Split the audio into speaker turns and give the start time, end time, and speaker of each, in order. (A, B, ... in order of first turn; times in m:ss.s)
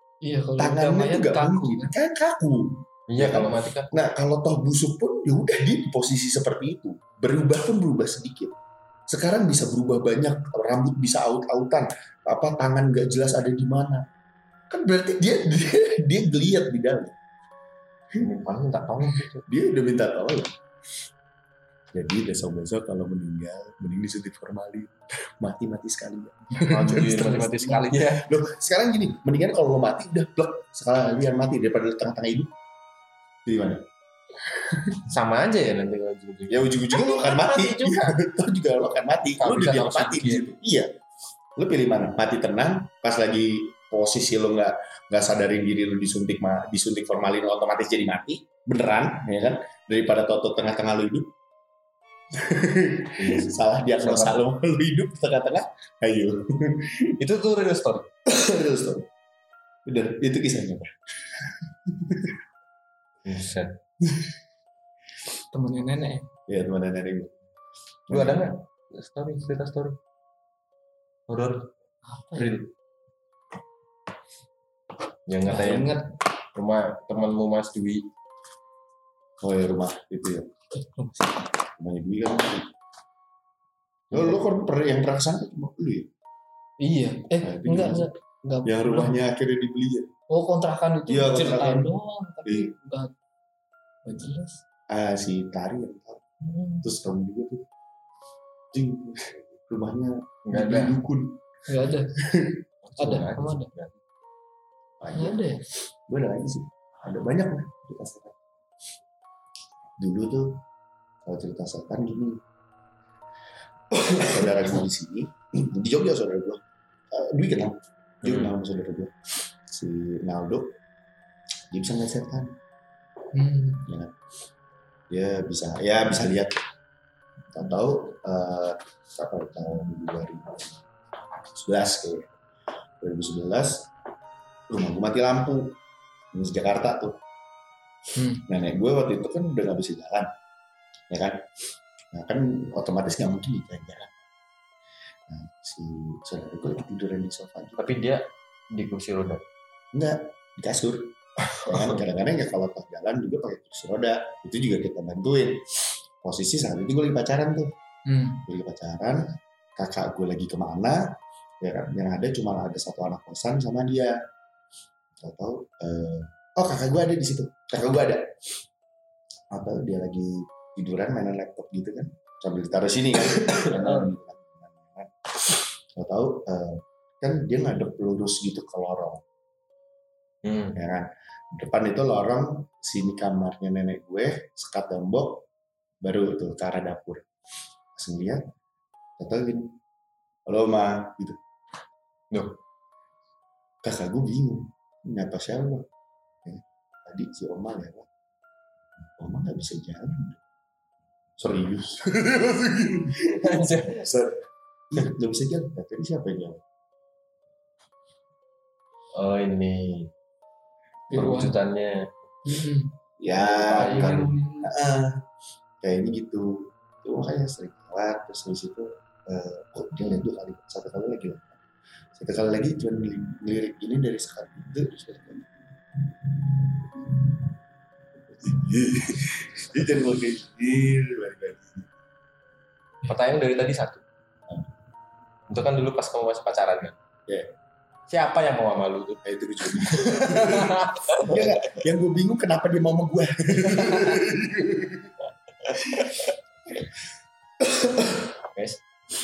0:00.2-0:02.0 A
0:00.6-0:08.5 B
0:03.1-0:03.9 C
0:09.1-0:14.0 B
0:14.7-0:17.2 B
0:18.2-0:19.4 C
0:19.2-0:20.5 B
0:21.9-0:32.5 B
0:26.6-0:28.2 C
0:33.4-0:33.8 B
0:35.0-0:38.2 C
0:36.5-0:40.9 B
0:39.4-0:40.4 C
0:41.6-0:51.3 B
0:52.4-0:57.1 B
0:53.2-0:54.4 C
0:57.2-0:58.1 C
0:58.3-0:59.1 B
0:59.8-1:02.4 B
1:03.2-1:03.8 C
1:05.5-1:06.3 A
1:06.5-1:07.3 B
1:08.1-1:10.0 C
1:08.1-1:08.4 B
1:11.3-1:11.7 C
1:12.0-1:12.6 A
1:12.3-1:12.7 C
1:15.3-1:16.0 C
1:15.4-1:16.1 A
1:16.5-1:18.1 C
1:19.4-1:20.5 B
1:20.7-1:21.4 A
1:21.8-1:22.7 B
1:24.1-1:26.1 B
1:26.8-1:29.2 A
1:27.4-1:28.1 B
1:28.6-1:30.1 B
1:30.3-1:33.1 A
1:31.1-1:31.9 B
1:32.4-1:32.7 B
1:34.0-1:34.6 A
1:34.9-1:36.2 B
1:36.4-1:36.9 A
1:36.8-1:37.6 B
1:38.7-1:41.4 B
1:40.5-1:41.0 C
1:41.7-1:42.1 A
1:42.2-1:42.6 B
1:42.8-1:44.0 C
1:43.0-1:43.7 A
1:45.0-1:48.4 B
1:45.1-1:45.6 A
1:50.0-1:50.6 B
1:51.2-1:52.4 B
1:53.9-1:56.6 B
1:57.1-1:59.1 B
1:58.2-1:58.5 C
1:59.6-2:00.7 B
2:01.7-2:02.5 B
2:03.3-2:03.9 A
2:03.8-2:04.1 B
2:05.1-2:06.6 B
2:07.5-2:10.8 B
2:11.5-2:12.3 B
2:13.0-2:13.9 B
2:14.7-2:15.8 B
2:16.3-2:17.2 B
2:18.2-2:18.4 A
2:18.4-2:20.3 B
2:21.1-2:21.4 B
2:22.1-2:24.2 B
2:25.3-2:27.9 B
2:27.8-2:28.2 C
2:28.7-2:29.4 C
2:29.9-2:35.6 B
2:31.7-2:32.0 C
2:36.2-2:37.7 B
2:38.0-2:38.4 A
2:38.4-2:39.2 B
2:39.8-2:41.0 B
2:41.6-2:44.1 B
2:45.2-2:48.3 B
2:49.5-2:59.2 B
2:53.4-2:54.1 C
3:00.4-3:00.8 C
3:00.7-3:05.4 B
3:06.0-3:07.3 B
3:07.9-3:08.4 B
3:09.2-3:09.7 B
3:10.5-3:11.4 B
3:12.3-3:12.6 C
3:13.8-3:15.8 B
3:16.4-3:18.0 B
3:19.2-3:20.4 B
3:21.4-3:26.6 B
3:23.3-3:24.0 C
3:29.1-3:30.1 C
3:31.1-3:31.6 A
3:31.1-3:32.1 C
3:32.4-3:32.9 A
3:33.2-3:35.2 B
3:33.4-3:34.2 C
3:33.8-3:34.7 A
3:35.8-3:36.5 B
3:37.0-3:41.6 B
3:42.1-3:45.5 B
3:46.1-3:47.4 B
3:48.4-3:51.9 B
3:53.0-3:54.0 C
3:55.5-3:57.0 C
3:58.1-3:59.2 C
3:59.2-4:05.1 B
3:59.8-4:01.8 C
4:05.6-4:06.9 B
4:07.6-4:08.2 B
4:08.5-4:08.8 C